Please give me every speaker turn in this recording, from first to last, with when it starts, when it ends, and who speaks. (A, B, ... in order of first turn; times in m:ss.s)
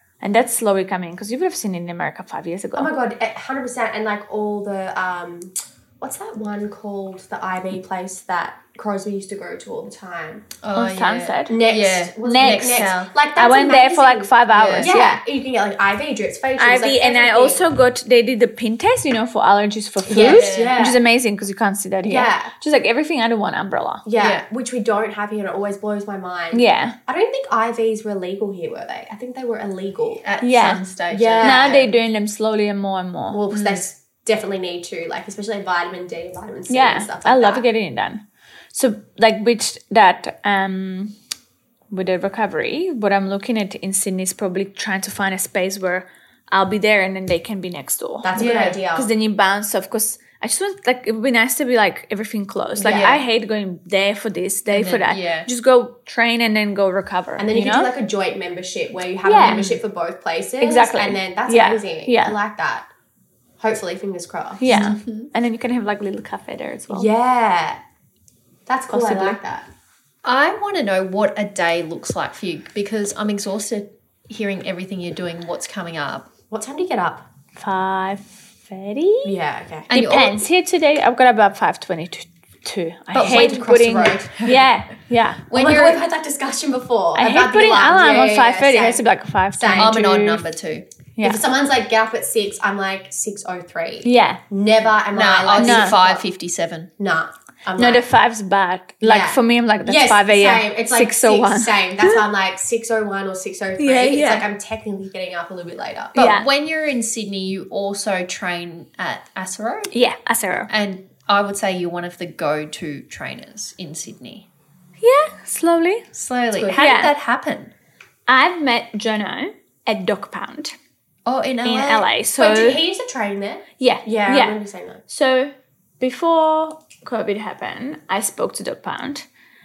0:00.2-0:02.9 A
0:02.7-0:10.5 B
0:10.6-0:13.1 C
0:10.7-0:11.6 A
0:11.5-0:17.7 B
0:12.2-0:15.2 A
0:14.5-0:14.9 C
0:16.6-0:24.0 A
0:20.1-0:21.0 B
0:20.1-0:20.9 C
0:22.0-0:22.5 B
0:24.0-0:30.2 B
0:24.2-0:24.4 C
0:26.5-0:27.0 A
0:30.2-0:31.8 C
0:30.4-0:30.8 A
0:31.1-0:31.9 B
0:31.4-0:33.4 A
0:33.3-0:37.6 B
0:33.5-0:33.8 C
0:36.7-0:38.2 A
0:38.7-0:41.1 A
0:41.9-0:57.9 A
0:48.2-0:49.1 B
0:52.8-0:53.1 B
0:52.8-0:53.2 C
0:54.7-0:55.5 C
0:57.4-1:02.9 B
0:59.2-0:59.7 A
0:59.4-0:59.8 C
1:00.6-1:02.4 A
1:03.6-1:04.7 B
1:04.6-1:07.1 A
1:04.7-1:05.3 C
1:06.9-1:07.8 B
1:08.7-1:09.7 B
1:08.9-1:09.4 A
1:10.2-1:16.3 C
1:16.5-1:17.2 B
1:17.6-1:19.3 A
1:19.2-1:19.9 B
1:19.9-1:20.4 C
1:19.9-1:25.4 A
1:23.1-1:24.3 B
1:23.1-1:24.6 C
1:25.5-1:26.0 C
1:25.5-1:29.0 B
1:27.1-1:30.4 A
1:29.6-1:30.1 B
1:29.8-1:30.8 C
1:31.2-1:36.2 B
1:34.0-1:34.4 A
1:35.1-1:36.9 C
1:35.5-1:36.0 A
1:37.0-1:38.0 B
1:37.8-1:42.2 A
1:39.0-1:46.1 B
1:43.8-1:44.4 A
1:46.1-1:46.4 A
1:46.1-1:49.9 C
1:49.9-1:50.7 A
1:50.7-1:54.5 C
1:55.0-1:56.0 A
1:56.1-1:57.7 C
1:56.5-1:56.8 B
1:56.7-1:57.1 A
1:58.3-2:00.7 A
2:01.2-2:02.1 C
2:01.6-2:02.8 A
2:02.4-2:05.0 B
2:03.8-2:09.2 A